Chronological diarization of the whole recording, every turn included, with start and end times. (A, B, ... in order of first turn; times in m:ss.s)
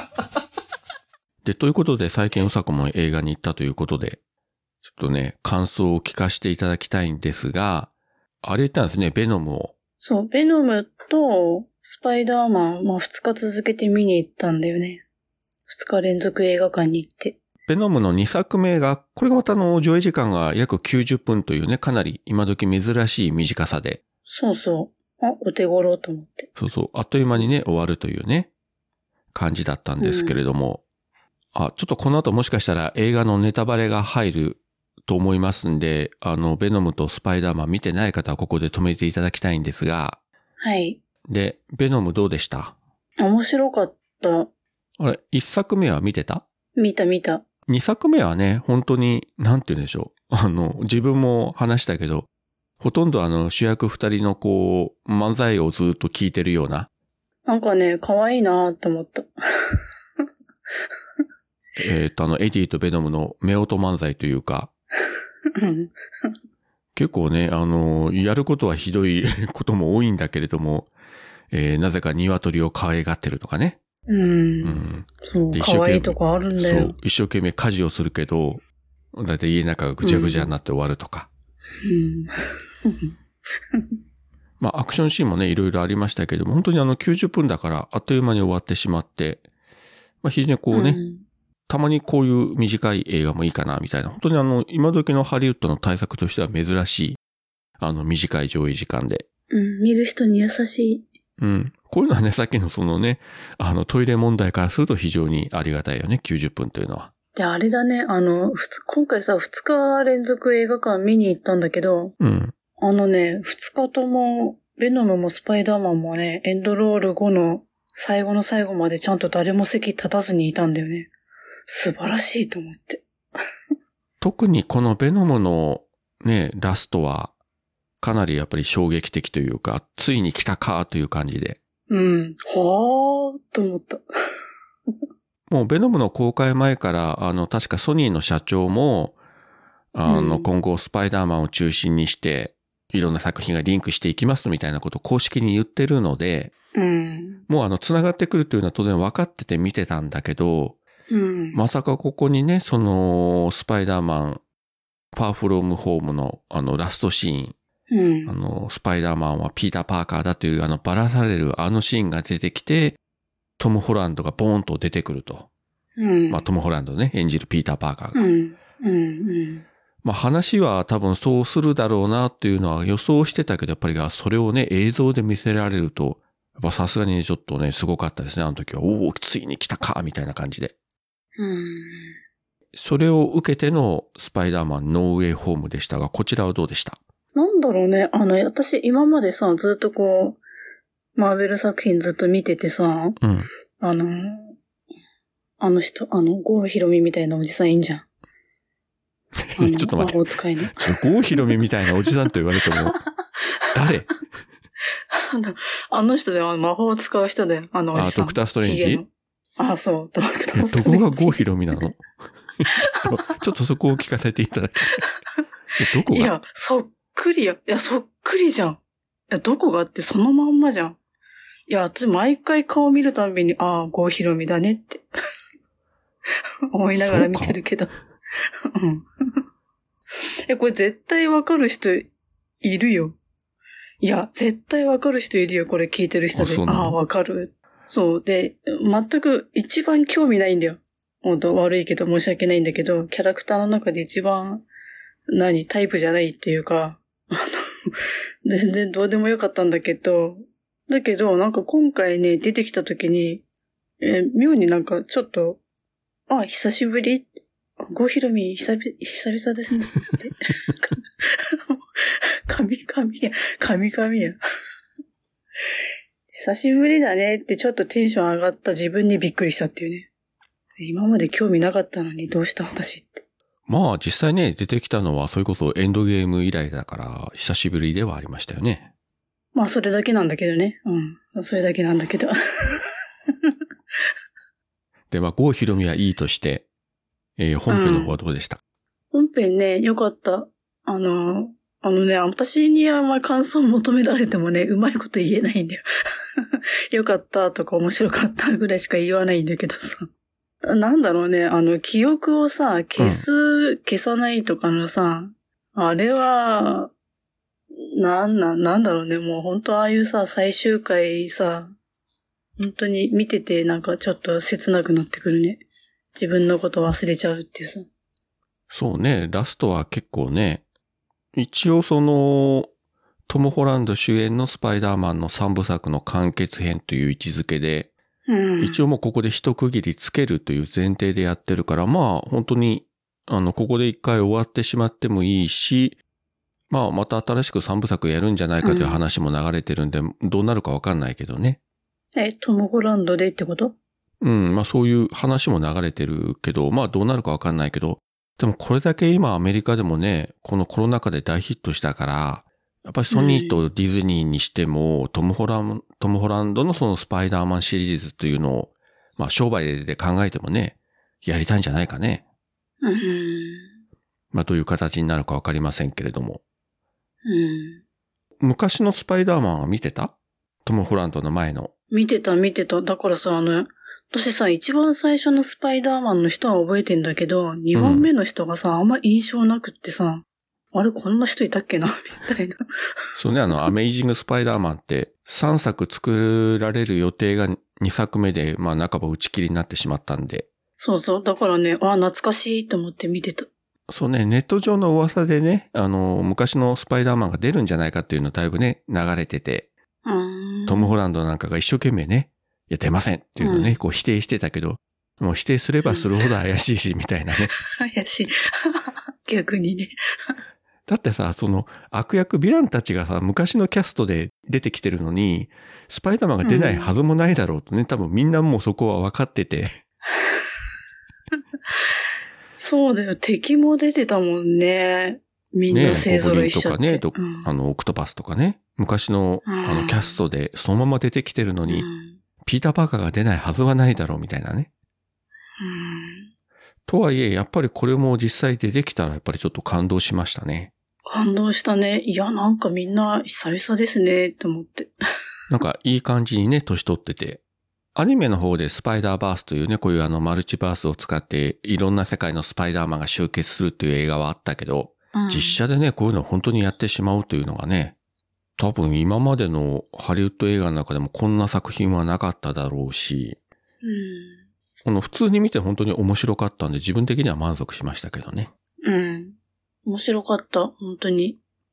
0:01.4-0:04.2 A
0:04.8-0:07.9 A
0:08.4-0:09.7 A
0:10.0-0:15.0 B
0:15.7-0:17.4 B
0:17.7-0:24.0 A
0:24.3-0:26.5 B
0:26.6-0:28.5 A
0:29.3-0:30.8 A
0:30.0-0:30.4 B
0:31.5-0:40.2 A
0:40.6-0:41.0 B
0:41.3-0:42.8 A
0:43.2-0:44.5 B
0:45.0-0:46.4 A
0:46.8-0:47.4 B
0:47.7-0:52.3 A
0:52.8-0:56.9 A
0:57.5-0:59.8 B
1:01.8-1:04.7 A
1:05.6-1:06.4 B
1:06.9-1:10.9 A
1:11.5-1:13.8 A
1:14.1-1:17.0 B
1:14.6-1:21.3 A
1:20.0-1:20.5 B
1:21.8-1:22.3 B
1:22.8-1:23.1 B
1:24.6-1:29.4 A
1:30.2-1:31.0 A
1:30.7-1:31.2 B
1:31.7-1:37.2 A
1:37.8-1:39.3 A
1:39.5-1:41.1 B
1:41.4-1:47.1 A
1:47.4-1:52.2 B
1:52.2-1:52.5 A
1:52.8-2:01.1 B
2:01.7-2:03.0 B
2:04.2-2:07.3 A
2:08.0-2:11.6 A
2:11.9-2:14.0 B
2:15.5-2:19.2 A
2:19.9-2:26.5 A
2:20.1-2:20.5 B
2:26.8-2:27.4 B
2:27.5-2:30.8 A
2:31.1-2:31.6 B
2:31.5-2:34.4 A
2:35.1-2:37.6 A
2:37.9-2:38.3 B
2:38.3-2:43.0 A
2:43.6-2:45.5 A
2:46.0-2:46.4 B
2:46.3-2:48.3 A
2:48.2-2:49.6 B
2:50.0-3:00.7 A
3:01.4-3:02.2 B
3:02.7-3:07.0 A
3:07.3-3:10.4 B
3:11.2-3:13.2 B
3:13.2-3:13.5 A
3:13.8-3:14.6 B
3:15.6-3:18.1 B
3:19.5-3:20.2 A
3:19.6-3:20.8 B
3:20.7-3:23.0 A
3:23.7-3:24.1 A
3:25.1-3:31.4 B
3:27.9-3:29.0 A
3:30.5-3:32.1 A
3:32.6-3:35.0 A
3:35.8-3:36.3 A
3:36.1-3:38.8 B
3:39.3-3:41.0 B
3:41.7-3:45.0 B
3:46.7-3:47.9 B
3:47.0-3:47.6 A
3:48.7-3:49.1 B
3:50.5-3:52.1 B
3:52.6-3:53.2 B
3:54.0-4:04.6 B
3:56.3-3:57.0 A
4:05.3-4:13.4 B
4:14.0-4:15.6 B
4:16.3-4:17.3 B
4:17.8-4:21.8 B
4:22.5-4:24.4 B
4:26.3-4:30.1 B
4:30.8-4:33.2 B
4:33.7-4:38.9 A
4:39.5-4:42.8 B
4:45.1-4:46.7 A
4:47.4-4:48.6 A
4:47.7-4:48.1 B
4:49.1-4:55.8 B
4:56.4-5:00.1 B
5:00.6-5:06.9 B
5:03.0-5:03.2 A
5:07.7-5:11.7 B
5:12.6-5:15.6 B
5:16.2-5:17.9 B
5:18.7-5:20.6 A
5:21.3-5:22.7 A
5:23.3-5:27.9 A
5:28.3-5:28.8 B
5:28.6-5:36.0 A
5:36.7-5:41.6 A
5:38.6-5:39.0 B
5:42.2-5:43.8 B
5:44.2-6:02.2 A
5:53.1-5:53.6 B
6:02.8-6:03.7 B
6:04.3-6:06.4 A
6:07.3-6:07.8 B
6:08.4-6:11.7 A
6:11.9-6:22.6 B
6:17.7-6:18.1 A
6:23.2-6:30.5 A
6:30.8-6:33.5 B
6:33.9-6:39.7 A
6:40.0-6:40.9 B
6:40.7-6:47.6 A
6:43.4-6:43.8 B
6:47.7-6:49.9 B
6:50.9-6:59.7 A
6:56.4-6:56.9 B
7:00.1-7:00.5 B
7:02.6-7:07.5 B
7:05.7-7:11.9 A
7:09.4-7:10.2 B
7:11.7-7:12.2 B
7:12.4-7:14.7 A
7:15.6-7:16.3 B
7:16.9-7:20.7 A
7:21.0-7:24.9 B
7:25.5-7:27.4 A
7:28.0-7:38.0 A
7:35.2-7:35.6 B
7:38.6-7:43.4 A
7:43.8-7:44.4 B
7:44.8-7:48.5 A
7:48.8-7:49.4 B
7:49.9-7:51.4 B